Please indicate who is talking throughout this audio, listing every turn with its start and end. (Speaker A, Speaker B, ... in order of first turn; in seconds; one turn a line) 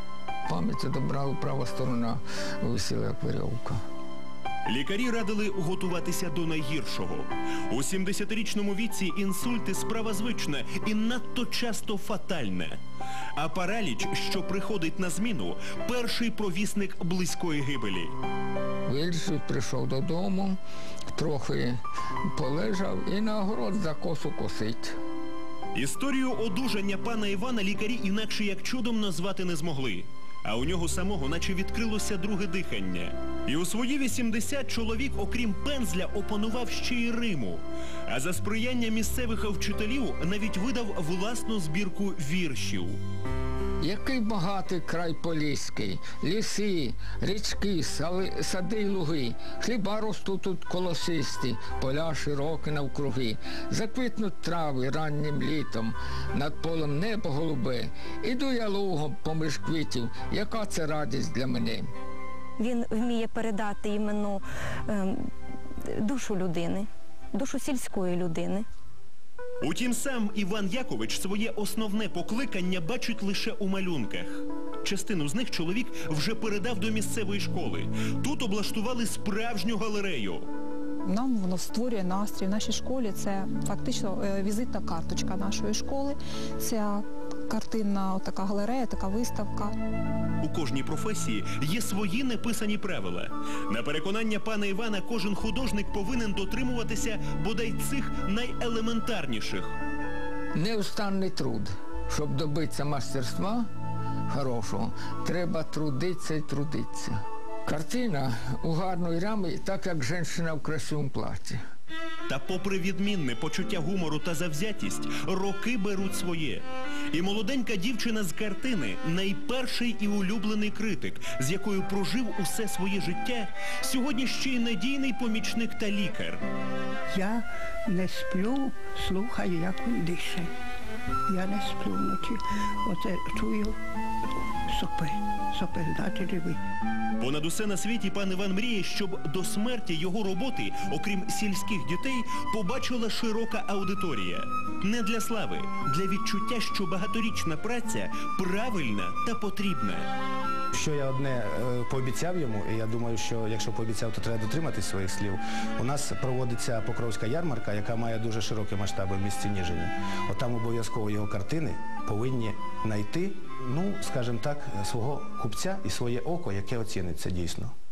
Speaker A: 0.5-3.8
Speaker B: 4.7-12.8
Speaker B: 13.4-18.1
Speaker A: 18.9-20.6
Speaker A: 21.1-24.9
Speaker B: 25.8-43.0
Speaker A: 43.8-61.9
Speaker C: 62.6-65.3
Speaker C: 65.9-68.7
Speaker B: 69.6-80.5
Speaker D: 81.1-89.8
Speaker B: 90.4-99.8
Speaker A: 100.5-103.7
Speaker A: 104.3-111.6
Speaker B: 112.3-126.5
Speaker E: 127.1-130.5
Speaker E: 131.3-133.8
Speaker E: 134.7-136.6
Speaker B: 137.2-150.1
Speaker F: 150.7-167.7